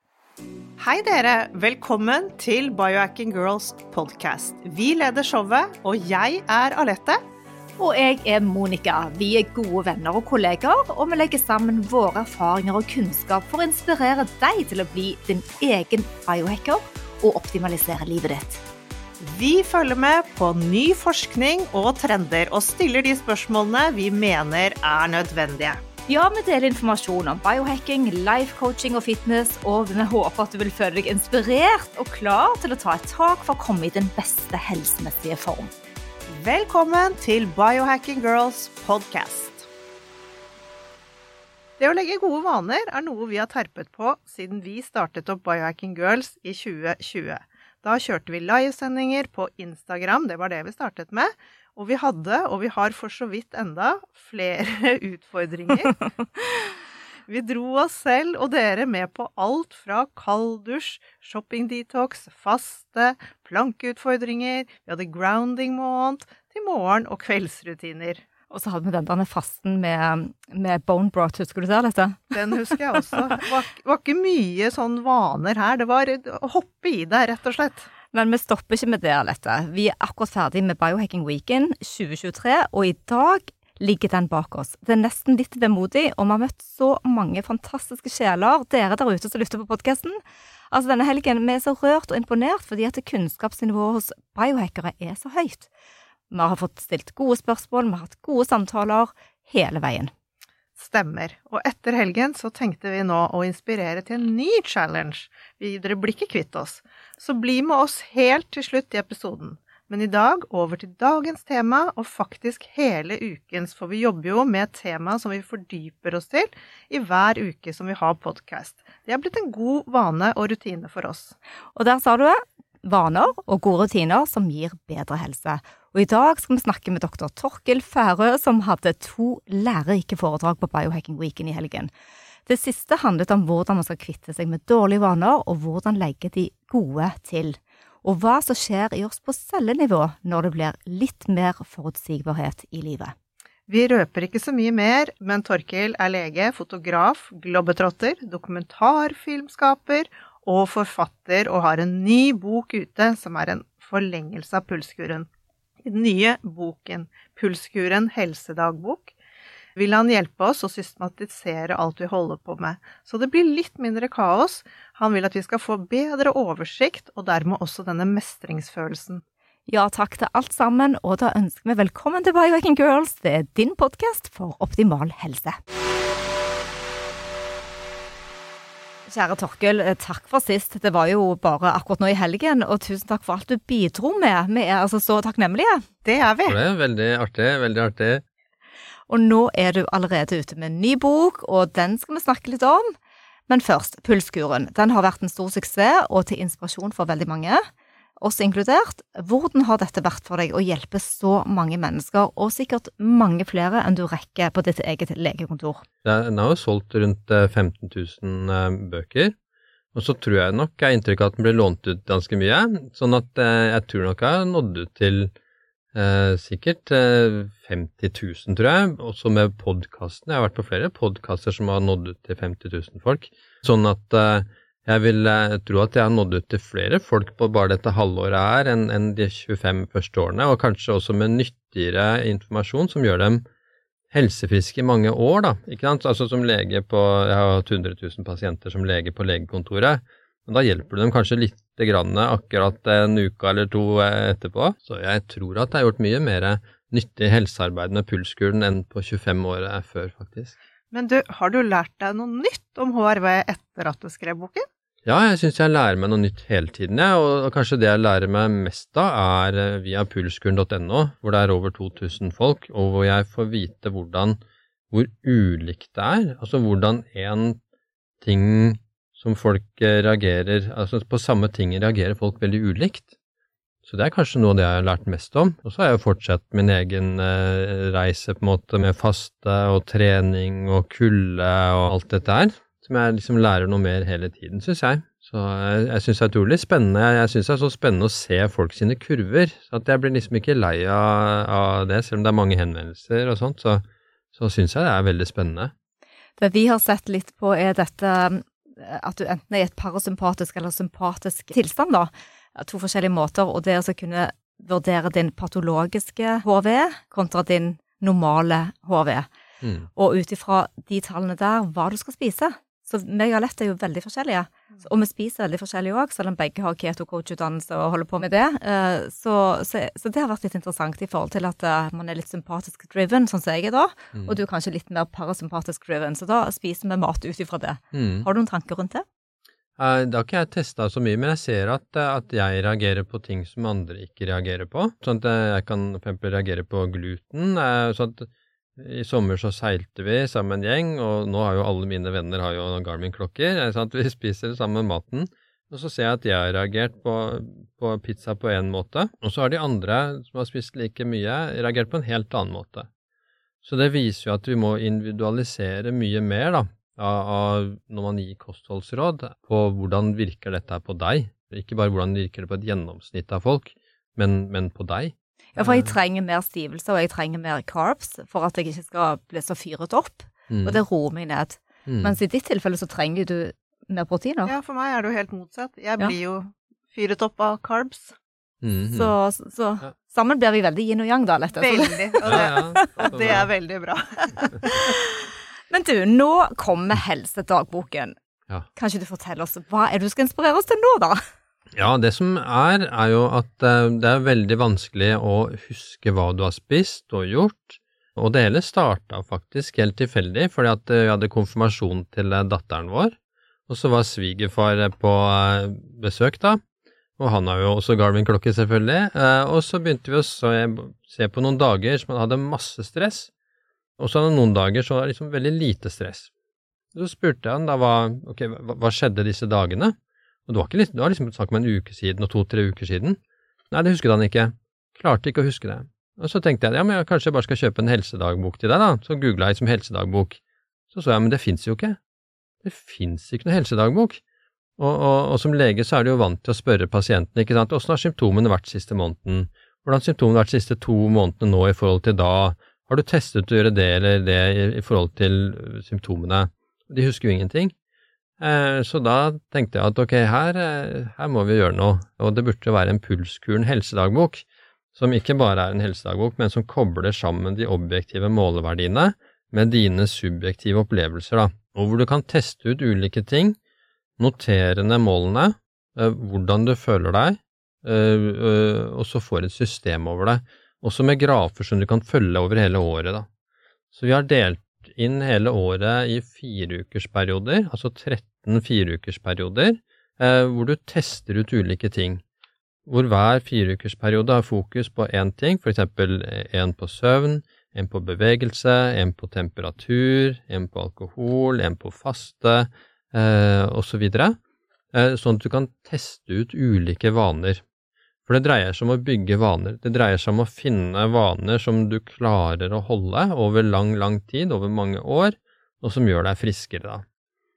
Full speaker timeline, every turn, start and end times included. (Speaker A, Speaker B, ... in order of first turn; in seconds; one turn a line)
Speaker A: 0.8-7.2
Speaker B: 7.8-18.6
Speaker A: 19.2-25.8
Speaker B: 26.1-35.7
Speaker A: 36.3-39.7
Speaker A: 41.8-56.1
Speaker A: 57.3-68.2
Speaker B: 68.5-72.4
Speaker A: 72.3-77.9
Speaker B: 78.1-95.7
Speaker B: 96.3-100.1
Speaker A: 100.8-121.3
Speaker B: 121.7-131.9
Speaker B: 132.5-143.1
Speaker A: 143.7-155.3
Speaker A: 155.8-159.1
Speaker A: 159.8-169.2
Speaker B: 169.7-175.6
Speaker B: 179.1-185.8
Speaker A: 186.0-186.6
Speaker C: 186.4-188.2
Speaker B: 189.1-192.9
Speaker B: 193.5-197.6
Speaker B: 198.2-205.8
Speaker C: 206.0-209.3
Speaker C: 209.9-215.3
Speaker C: 215.9-233.4
Speaker C: 234.1-250.6
Speaker A: 250.9-254.7
Speaker C: 255.0-264.4
Speaker C: 264.9-267.6
Speaker C: 268.2-273.1
Speaker C: 273.8-293.8
Speaker C: 294.3-295.7
Speaker B: 296.4-309.3
Speaker C: 309.6-309.9
Speaker B: 309.9-329.0
Speaker C: 327.9-328.3
Speaker C: 329.8-352.9
Speaker C: 353.6-365.9
Speaker B: 365.5-374.5
Speaker C: 370.5-370.8
Speaker C: 371.9-372.1
Speaker A: 374.4-378.1
Speaker C: 378.6-379.1
Speaker B: 378.9-383.1
Speaker A: 381.6-384.9
Speaker C: 382.2-383.4
Speaker B: 384.6-385.1
Speaker B: 385.7-388.1
Speaker B: 388.7-391.2
Speaker C: 391.7-403.1
Speaker C: 403.7-406.6
Speaker C: 407.2-413.3
Speaker C: 414.0-416.3
Speaker C: 416.9-419.9
Speaker C: 420.5-423.2
Speaker C: 423.7-430.4
Speaker C: 430.9-432.0
Speaker C: 432.6-434.2
Speaker C: 434.8-447.7
Speaker C: 448.4-454.4
Speaker C: 454.9-463.6
Speaker C: 464.2-473.3
Speaker C: 473.9-482.2
Speaker C: 482.9-494.4
Speaker C: 494.9-497.6
Speaker C: 498.3-507.0